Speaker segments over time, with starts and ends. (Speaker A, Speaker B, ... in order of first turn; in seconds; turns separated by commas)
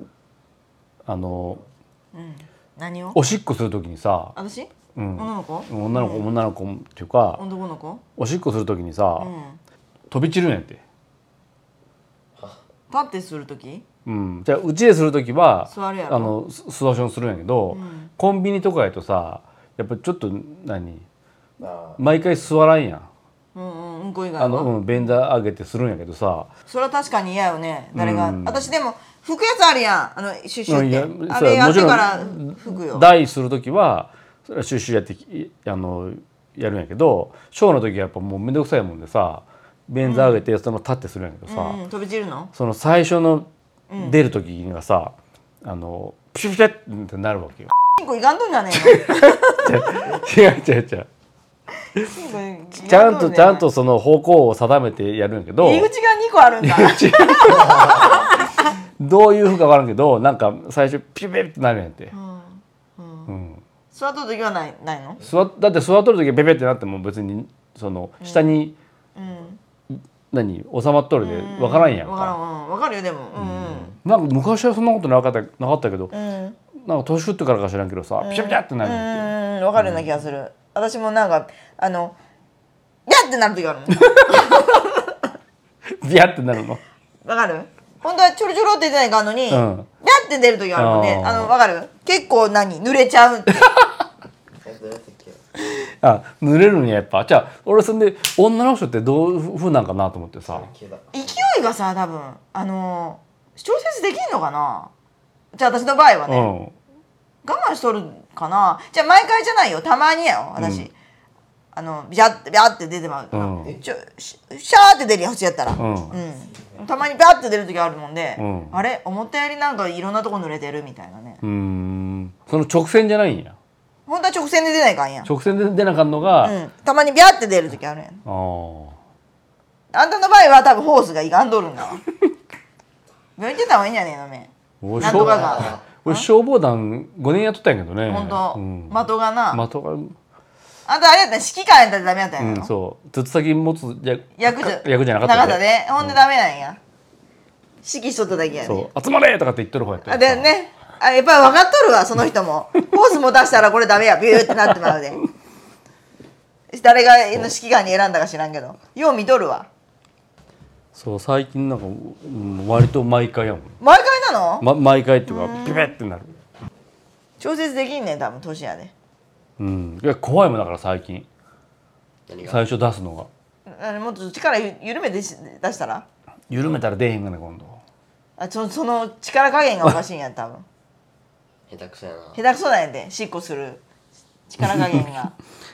Speaker A: 1.1-1.6, Speaker B: 2.1-3.2, Speaker A: 3.1-4.3, Speaker B: 4.3-6.3, Speaker A: 4.9-7.4, Speaker B: 7.4-8.0, Speaker A: 8.2-9.3, Speaker B: 9.2-9.6, Speaker A: 10.1-10.8, Speaker B: 12.9-13.8, Speaker A: 14.1-21.0, Speaker B: 15.7-16.4, Speaker B: 17.7-18.1, Speaker C: 21.6-22.0, Speaker A: 21.9-23.1, Speaker B: 23.5-24.8, Speaker A: 24.4-26.5, Speaker B: 26.7-33.1, Speaker A: 27.9-28.7, Speaker A: 30.7-41.8, Speaker B: 40.0-40.4, Speaker B: 41.5-42.5, Speaker A: 42.5-47.7, Speaker B: 43.9-44.2, Speaker B: 48.0-50.1, Speaker A: 48.7-51.1, Speaker B: 52.0-53.7, Speaker A: 52.8-55.9, Speaker B: 55.6-58.3, Speaker A: 56.6-58.3, Speaker A: 59.0-62.1, Speaker B: 62.1-63.3, Speaker A: 63.3-63.6, Speaker B: 63.9-65.2, Speaker A: 65.2-68.8, Speaker B: 68.2-68.6, Speaker B: 69.1-69.6, Speaker A: 70.3-72.3, Speaker B: 71.2-74.0, Speaker A: 73.3-76.1, Speaker B: 76.1-76.6, Speaker A: 76.8-80.1, Speaker B: 78.2-82.2, Speaker B: 83.1-85.2, Speaker A: 84.2-84.6, Speaker A: 86.0-86.8, Speaker B: 87.2-93.7, Speaker A: 89.5-89.9, Speaker A: 90.8-91.5, Speaker C: 94.6-95.4, Speaker A: 95.6-100.7, Speaker C: 100.6-101.2, Speaker B: 101.1-104.9, Speaker B: 105.5-106.5, Speaker A: 106.3-106.7, Speaker B: 107.4-110.9, Speaker A: 110.6-110.9, Speaker B: 111.7-121.4, Speaker A: 113.3-113.8, Speaker A: 115.8-116.2, Speaker A: 118.4-118.8, Speaker A: 121.4-123.5, Speaker B: 124.1-125.3, Speaker A: 125.2-126.6, Speaker B: 126.4-128.2, Speaker A: 128.2-128.9, Speaker B: 129.9-132.0, Speaker B: 133.4-136.3, Speaker A: 134.8-140.1, Speaker C: 135.3-135.8, Speaker B: 138.1-139.6, Speaker B: 140.8-142.7, Speaker A: 142.4-146.1, Speaker B: 144.3-146.8, Speaker B: 147.8-148.9, Speaker A: 148.6-150.5, Speaker B: 150.0-155.2, Speaker A: 154.7-154.9, Speaker B: 156.7-159.7, Speaker A: 160.9-163.7, Speaker B: 163.8-164.7, Speaker A: 164.6-166.3, Speaker B: 165.3-165.9, Speaker B: 167.4-168.9, Speaker A: 169.6-171.3, Speaker C: 172.3-172.6, Speaker A: 172.4-173.3, Speaker B: 173.7-176.1, Speaker A: 176.5-177.8, Speaker B: 178.4-180.7, Speaker C: 181.7-182.4, Speaker B: 182.3-183.8, Speaker B: 184.5-185.3, Speaker A: 184.6-185.0